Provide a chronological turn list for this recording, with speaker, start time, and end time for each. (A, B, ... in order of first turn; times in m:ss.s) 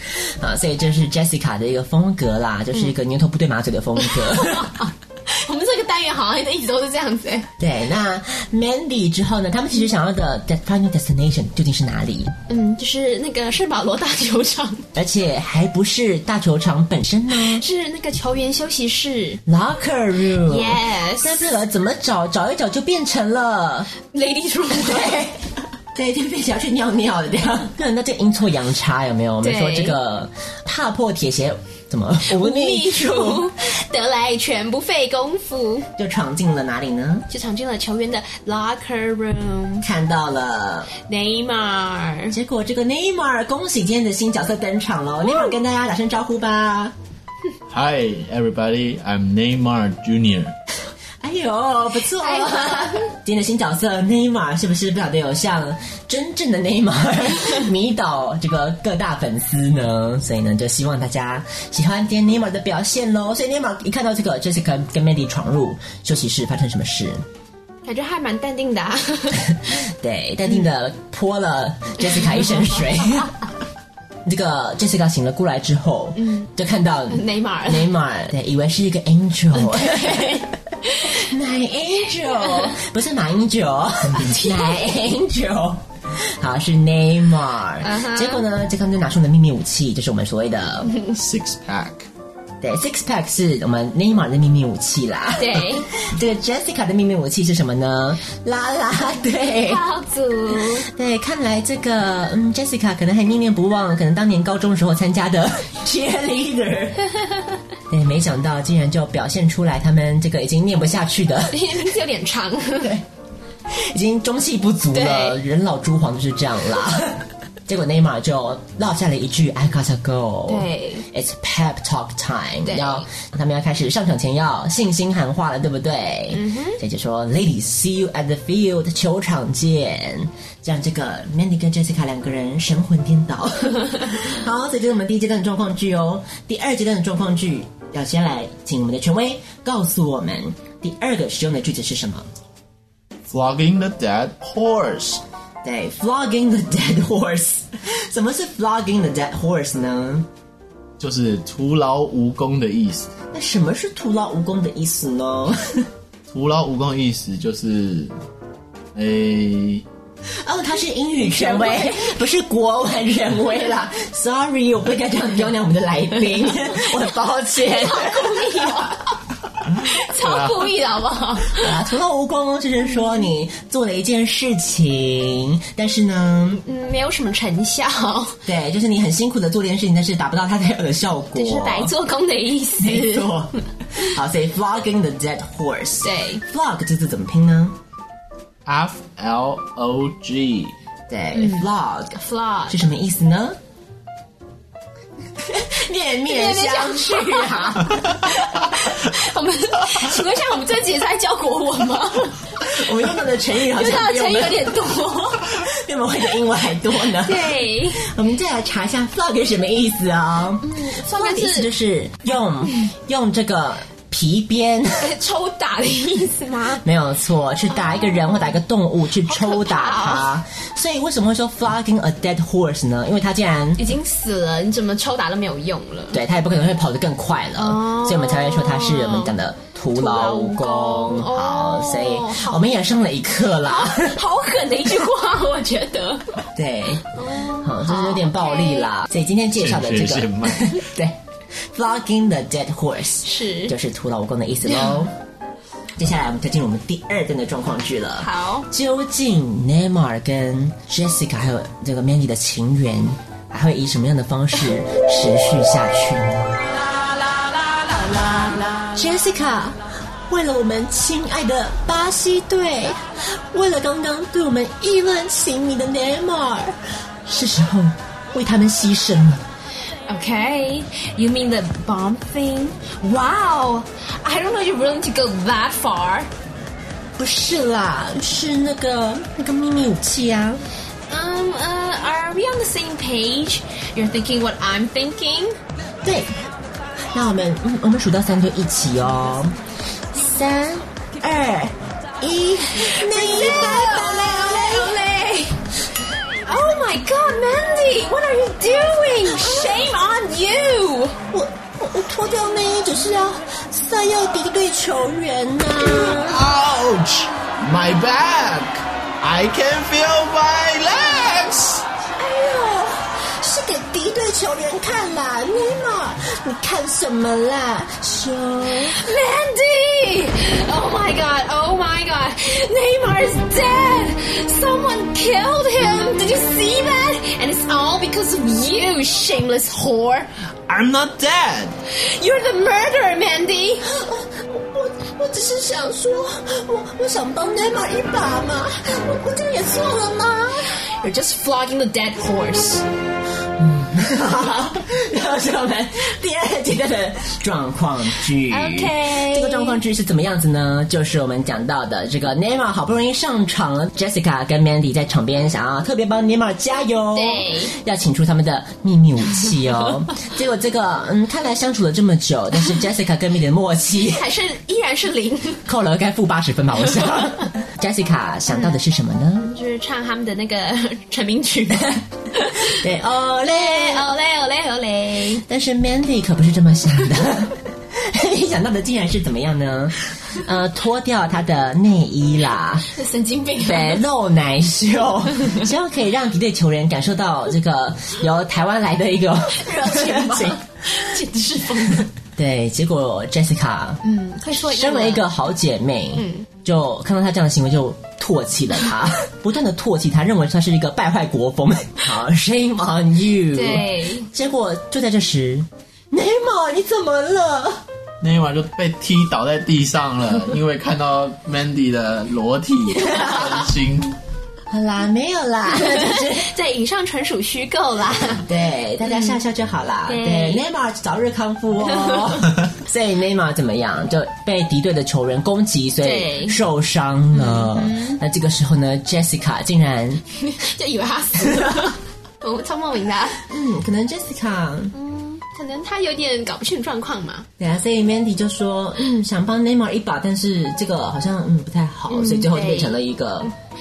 0:00.1-0:04.7 A
0:04.0-0:07.5 B
0:07.6-0:12.3 A
0:12.5-0:14.9 B
0:15.0-0:17.6 A
0:17.4-0:19.4 B
0:19.5-0:23.9 A
0:20.4-0:21.4 B
0:24.1-0:25.2 B
0:24.7-0:33.5 A
0:29.4-0:30.0 B
0:32.3-0:35.9 B
0:36.0-0:37.3 A
0:37.3-0:39.9 B
0:39.8-0:40.9 A
0:41.0-0:42.4 B
0:42.3-0:47.0 A
0:47.7-0:50.5 C
0:51.2-1:07.2 A
0:52.2-0:53.1 B
1:07.8-1:09.5 B
1:09.7-1:13.4 A
1:14.2-1:20.5 A
1:16.2-1:16.5 B
1:17.1-1:17.9 B
1:19.5-1:21.2 B
1:21.1-1:31.0 A
1:27.8-1:28.4 B
1:31.1-1:32.1 C
1:32.6-1:39.8 A
1:35.4-1:35.9 B
1:39.6-1:40.9 B
1:40.9-1:47.0 A
1:47.9-1:51.7 A
1:51.5-1:53.0 B
1:52.8-1:53.0 A
1:53.7-2:22.3 A
1:54.9-1:55.4 B
2:00.5-2:01.1 B
2:02.6-2:03.1 B
2:06.3-2:06.8 B
2:23.3-2:25.2 C
2:25.6-2:30.3 A
2:31.0-2:33.1 C
2:33.3-2:35.9 A
2:36.3-2:38.1 C
2:38.9-2:39.8 C
2:40.4-2:48.8 A
2:41.3-2:42.1 B
2:47.6-2:49.2 B
2:49.8-2:51.7 B
2:50.2-2:50.6 C
2:51.5-2:56.6 A
2:56.6-2:58.4 B
2:58.4-3:01.9 A
3:01.4-3:03.3 B
3:02.8-3:07.8 A
3:06.0-3:06.4 B
3:08.7-3:10.8 C
3:11.1-3:13.6 A
3:11.4-3:12.8 B
3:15.4-3:18.2 A
3:16.3-3:22.5 B
3:22.6-3:24.7 A
3:23.7-3:25.5 B
3:25.5-3:35.1 A
3:27.2-3:28.0 B
3:30.6-3:31.7 B
3:35.0-3:36.8 B
3:36.8-3:43.8 A
3:37.8-3:38.5 B
3:39.2-3:40.3 B
3:43.8-3:46.2 B
3:46.1-3:54.2 A
3:47.6-3:49.3 B
3:50.0-3:52.6 B
3:53.6-3:56.4 B
3:56.6-4:01.2 A
3:57.2-3:58.9 B
3:59.5-4:00.8 C
4:01.7-4:05.1 A
4:03.2-4:03.8 B
4:04.7-4:05.0 B
4:06.0-4:16.7 A
4:08.2-4:08.7 B
4:18.8-4:29.4 A
4:30.1-4:36.3 B
4:37.2-4:40.6 A
4:41.1-4:45.6 B
4:46.0-4:46.3 A
4:47.1-4:49.6 A
4:50.1-4:55.0 A
4:53.0-4:55.6 B
4:56.4-5:01.2 B
4:59.3-4:59.8 A
5:01.3-5:06.4 A
5:05.9-5:11.8 C
5:12.2-5:19.1 A
5:18.9-5:30.3 B
5:30.7-5:31.8 C
5:31.9-5:33.9 B
5:33.8-5:40.7 A
5:41.0-5:42.8 B
5:43.6-6:04.2 A
5:48.5-5:49.8 B
5:57.1-5:57.8 B
6:04.0-6:05.6 B
6:05.7-6:09.5 A
6:08.5-6:08.8 B
6:09.4-6:12.8 B
6:12.6-6:14.1 A
6:13.5-6:15.4 B
6:15.5-6:22.9 A
6:22.9-6:24.0 B
6:23.6-6:30.6 A
6:29.5-6:32.1 B
6:32.2-6:34.0 A
6:34.0-6:35.3 B
6:34.6-6:47.8 A
6:36.2-6:36.5 B
6:43.5-6:44.3 B
6:48.2-6:54.2 C
6:54.7-6:56.5 A
6:55.8-6:58.5 B
6:58.4-7:10.2 A
7:00.1-7:00.6 B
7:06.0-7:06.6 B
7:07.3-7:08.2 B
7:10.4-7:13.4 B
7:11.6-7:11.9 A
7:13.5-7:14.9 A
7:14.9-7:17.5 B
7:17.6-7:23.5 A
7:22.1-7:23.0 B